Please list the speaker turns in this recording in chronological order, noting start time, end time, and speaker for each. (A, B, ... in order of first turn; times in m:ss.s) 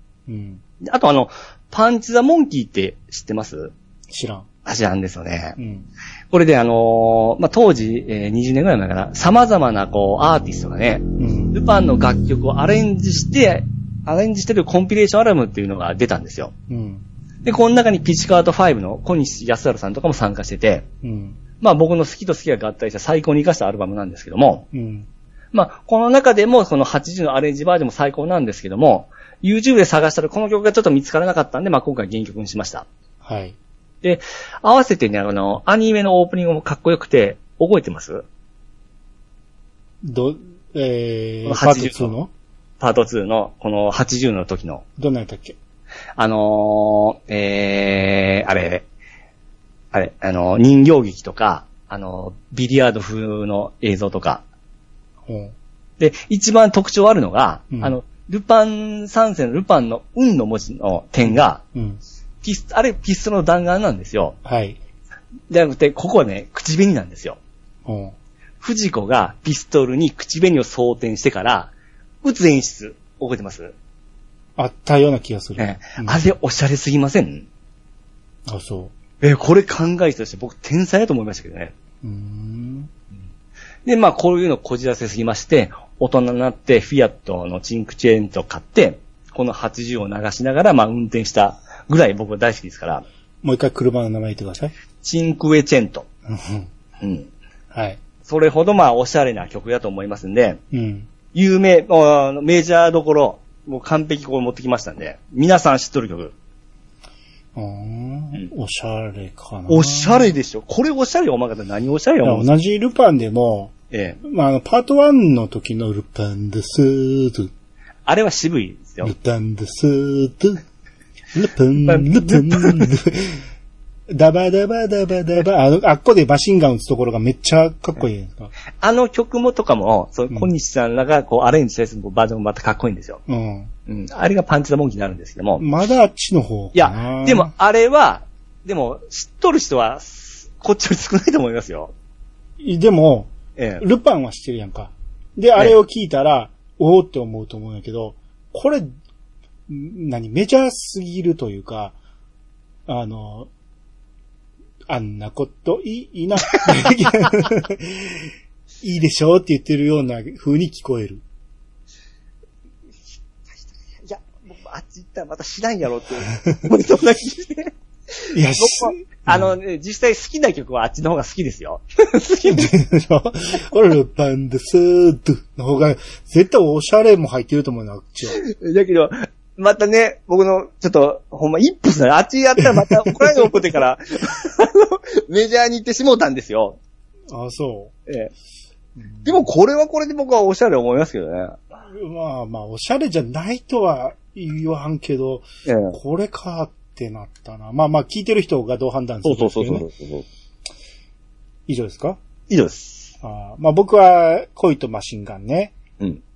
0:00.3-0:00.6 A
0:00.8-0:03.7 B
0:04.1-0:04.5 A
0:04.6-0:05.6 B
0:05.6-0:05.9 A
0:06.3-0:16.5 B
0:11.2-0:11.6 A
0:16.7-0:17.0 A
0:17.4-0:20.8 B
0:21.0-0:21.4 A
0:21.6-0:24.7 B
0:24.7-0:25.1 A
0:25.5-0:32.9 B
0:33.2-0:33.6 A
0:34.0-0:38.2 B
0:40.0-0:42.3 A
0:41.5-0:42.1 B
0:42.8-0:44.8 B
0:45.0-0:45.6 A
0:46.2-0:48.8 B
0:49.9-0:54.4 B
0:55.3-0:55.5 A
0:56.0-1:01.6 B
0:57.7-0:58.0 A
1:01.3-1:02.0 A
1:02.4-1:04.4 B
1:04.4-1:04.8 A
1:05.5-1:07.4 B
1:07.9-1:08.2 A
1:08.6-1:11.7 B
1:12.2-1:13.7 B
1:14.6-1:16.2 A
1:15.6-1:17.5 B
1:18.5-1:18.9 A
1:19.2-1:21.7 B
1:22.0-1:22.9 A
1:23.8-1:33.0 B
1:33.4-1:34.7 A
1:35.0-1:36.1 B
1:36.3-1:36.7 A
1:37.0-1:37.3 B
1:37.7-1:38.0 A
1:38.2-1:40.6 B
1:40.7-1:41.1 A
1:41.3-1:46.3 B
1:47.6-1:50.3 A
1:49.7-1:52.5 B
1:52.2-1:57.5 A
1:53.9-1:54.2 B
1:58.1-1:59.1 B
1:59.0-2:00.6 A
2:01.3-2:03.4 A
2:01.8-2:02.9 B
2:04.1-2:08.5 A
2:08.8-2:13.2 B
2:13.3-2:13.7 A
2:13.9-2:15.6 B
2:15.6-2:17.5 A
2:16.8-2:21.9 B
2:22.6-2:28.9 A
2:23.6-2:23.8 B
2:29.7-2:32.0 A
2:32.9-2:33.5 A
2:34.9-2:38.3 A
2:38.8-2:41.2 A
2:43.5-2:52.7 B
2:48.3-2:49.5 A
2:52.5-2:58.4 A
2:58.4-3:06.8 B
3:02.8-3:03.1 A
3:07.3-3:07.9 A
3:09.0-3:09.5 A
3:09.2-3:11.6 B
3:11.9-3:19.9 A
3:15.7-3:16.0 B
3:19.2-3:20.3 B
3:21.7-3:22.2 A
3:22.5-3:23.1 B
3:23.2-3:25.8 A